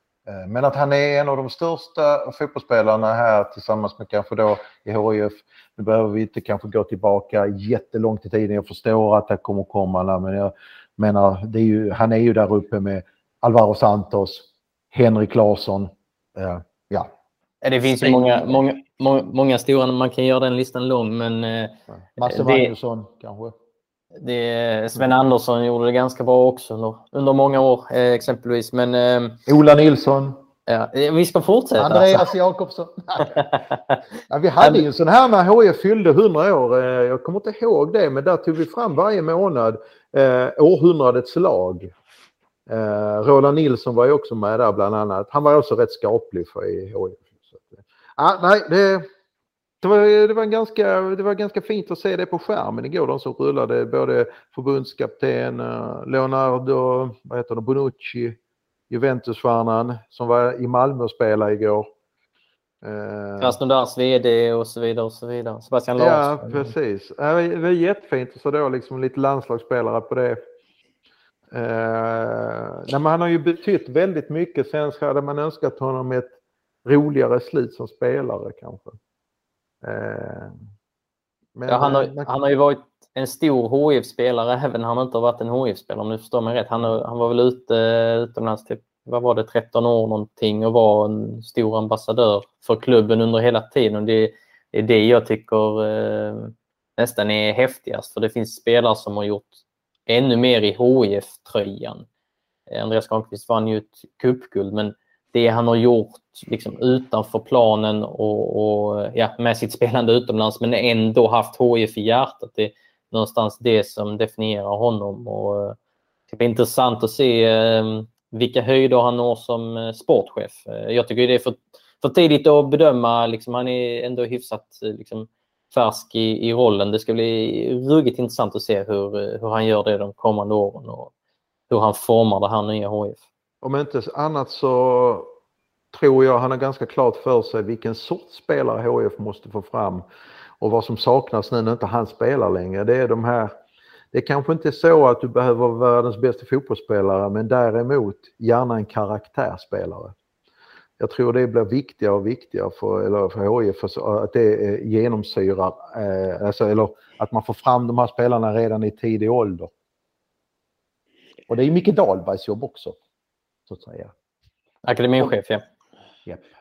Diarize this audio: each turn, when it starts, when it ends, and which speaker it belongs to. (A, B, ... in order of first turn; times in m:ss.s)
0:00.3-0:17.1 A
0:17.6-0:22.7 B
0:22.2-0:23.5 A
0:24.2-0:29.4 B
0:29.5-0:30.4 A
0:30.7-0:32.3 B
0:31.8-0:33.5 A
0:34.3-0:41.9 A
0:42.7-0:49.1 A
0:49.8-0:58.4 A
0:58.9-1:01.9 A
1:02.8-1:03.6 A
1:03.4-1:06.7 B
1:06.0-1:10.4 A
1:11.5-1:19.0 A
1:19.8-1:20.5 A
1:21.6-1:22.3 A
1:21.7-1:42.0 B
1:42.7-1:55.8 B
1:56.3-2:11.1 B
2:11.7-2:13.2 B
2:13.6-2:15.3 A
2:15.9-2:20.0 A
2:20.6-2:23.5 A
2:24.1-2:30.1 A
2:31.0-2:39.7 A
2:41.5-2:43.0 A
2:43.7-2:44.1 A
2:44.8-2:45.6 B